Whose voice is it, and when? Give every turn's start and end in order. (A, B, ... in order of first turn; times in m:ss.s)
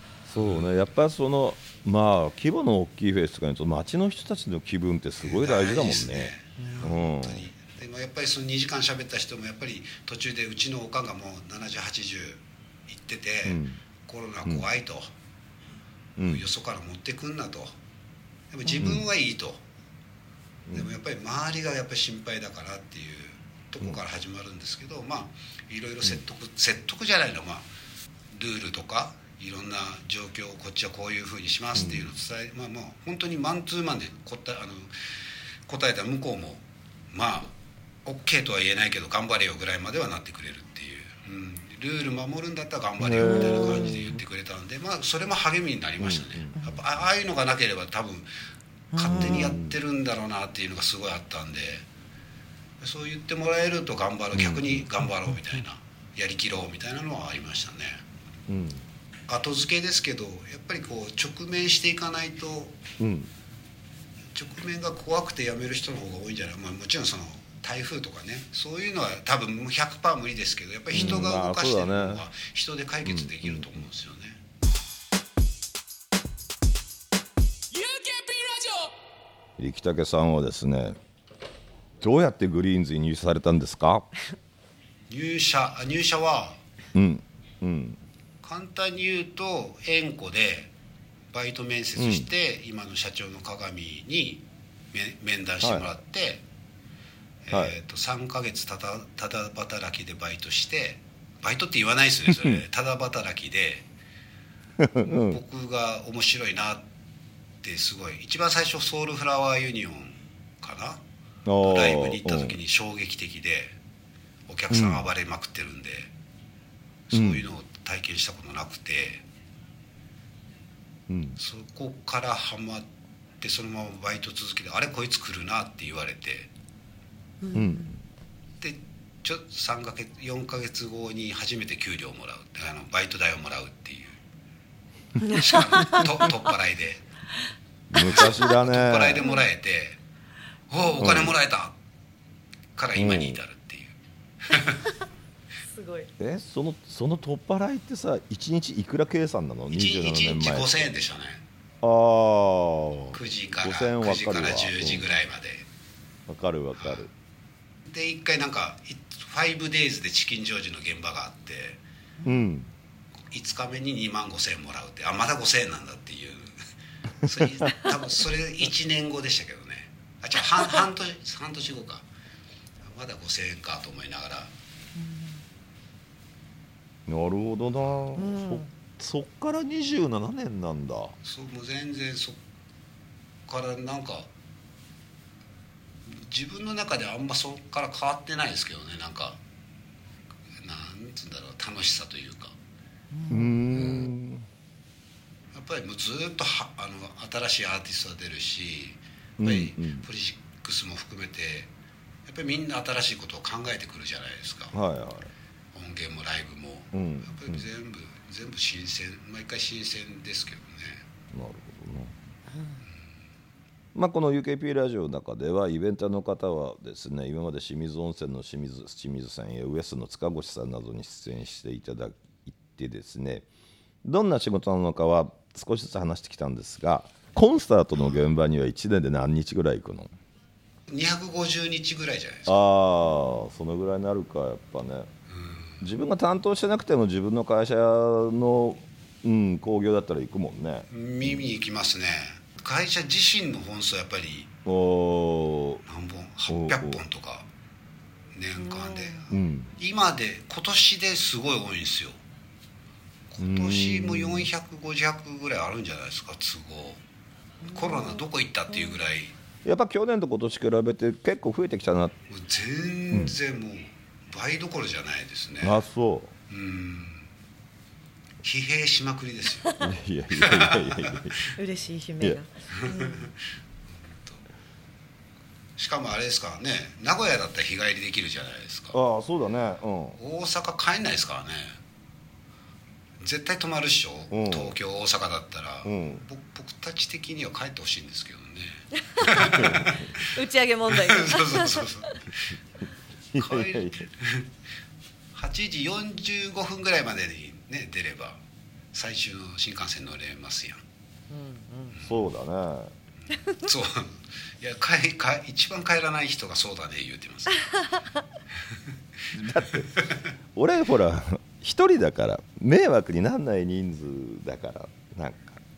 0:00.3-0:07.5 A
0:00.4-0:00.7 B
0:05.2-0:15.1 B
0:06.6-0:07.0 C
0:13.4-0:13.8 A
0:16.2-0:16.5 A
0:16.2-0:17.7 B
0:18.5-0:19.6 B
0:18.7-0:19.0 C
0:18.8-0:19.1 A
0:20.7-0:21.0 A
0:20.7-0:27.7 B
0:28.3-0:34.9 B
0:31.8-0:32.1 A
0:35.7-0:37.5 B
0:38.0-0:48.3 B
0:43.0-0:44.2 A
0:43.5-0:43.8 C
0:46.0-0:46.8 A
0:48.9-0:49.5 C
0:48.9-0:51.8 B
0:49.0-0:49.8 A
0:52.8-0:58.0 B
0:54.3-0:54.8 A
0:58.5-0:58.9 A
0:59.3-1:02.8 B
1:03.0-1:03.3 A
1:04.3-1:14.4 B
1:10.9-1:12.3 A
1:13.0-1:13.9 A
1:17.8-1:18.9 B
1:19.6-1:21.0 A
1:22.0-1:24.1 A
1:25.1-1:26.6 B
1:26.9-1:28.0 A
1:28.4-1:30.7 B
1:31.3-1:36.4 B
1:32.0-1:32.3 A
1:35.6-1:35.9 A
1:37.4-1:43.9 B
1:42.3-1:42.6 A
1:44.8-1:45.4 A
1:45.2-1:46.8 B
1:47.6-1:51.0 B
1:51.5-1:52.6 A
1:51.6-1:53.8 B
1:54.5-1:56.1 B
1:54.7-1:55.1 A
1:57.1-1:59.2 B
1:57.1-1:57.4 A
2:01.1-2:01.4 A
2:01.4-2:02.8 B
2:03.4-2:06.5 B
2:07.4-2:07.9 C
2:07.5-2:08.0 A
2:08.6-2:14.2 B
2:15.2-2:16.1 C
2:15.3-2:17.0 B
2:17.9-2:19.2 A
2:18.0-2:20.0 B
2:19.2-2:19.4 C
2:20.7-2:21.8 B
2:21.0-2:21.4 A
2:22.8-2:24.9 B
2:23.0-2:23.4 A
2:25.6-2:26.1 C
2:26.2-2:31.0 A
2:29.7-2:31.4 B
2:31.8-2:35.1 A
2:33.1-2:35.7 B
2:36.3-2:37.1 A
2:36.8-2:37.1 B
2:37.9-2:41.8 B
2:42.2-2:42.7 A
2:43.3-2:46.6 B
2:47.2-2:47.7 A
2:47.2-2:52.1 B
2:52.8-2:54.5 B
2:55.0-2:55.3 C
2:57.1-3:01.2 A
2:58.2-2:58.7 C
3:01.2-3:02.4 B
3:03.5-3:04.3 B
3:06.1-3:09.4 B
3:10.6-3:12.6 B
3:13.2-3:13.6 C
3:13.3-3:14.5 A
3:13.7-3:14.1 B
3:15.5-3:21.7 B
3:19.4-3:20.1 A
3:22.3-3:24.8 B
3:24.7-3:25.3 A
3:25.7-3:31.0 B
3:26.9-3:27.6 A
3:31.3-3:32.2 A
3:34.0-3:43.5 A
3:44.0-3:50.1 A
3:48.0-3:48.2 B
3:50.9-3:52.6 B
3:52.5-3:55.1 A
3:55.3-3:55.8 B
3:55.8-4:01.4 A
4:00.9-4:04.5 B
4:04.6-4:05.8 A
4:05.9-4:07.5 B
4:06.5-4:07.0 A
4:08.4-4:12.2 B
4:08.6-4:09.2 C
4:09.3-4:09.7 A
4:13.3-4:17.0 B
4:13.4-4:14.5 A
4:17.6-4:18.2 C
4:17.7-4:19.3 B
4:19.6-4:22.2 A
4:22.3-4:25.8 B
4:23.1-4:23.4 A
4:25.6-4:26.3 A
4:26.5-4:27.2 B
4:28.4-4:29.8 B
4:29.8-4:31.4 A
4:30.4-4:31.4 B
4:31.5-4:33.3 C
4:32.8-4:33.3 B
4:33.9-4:34.4 B
4:35.8-4:39.0 B
4:38.9-4:40.2 A
4:40.2-4:41.8 B
4:43.2-4:50.3 B
4:44.3-4:44.8 A
4:45.8-4:46.2 A
4:49.2-4:52.2 C
4:49.5-4:50.1 A
4:50.9-4:52.6 B
4:53.3-4:54.1 A
4:53.4-4:54.5 B
4:55.3-4:58.4 B
4:58.9-5:00.8 B
5:01.3-5:02.0 C
5:02.0-5:02.9 A
5:03.6-5:07.7 B
5:09.3-5:15.6 A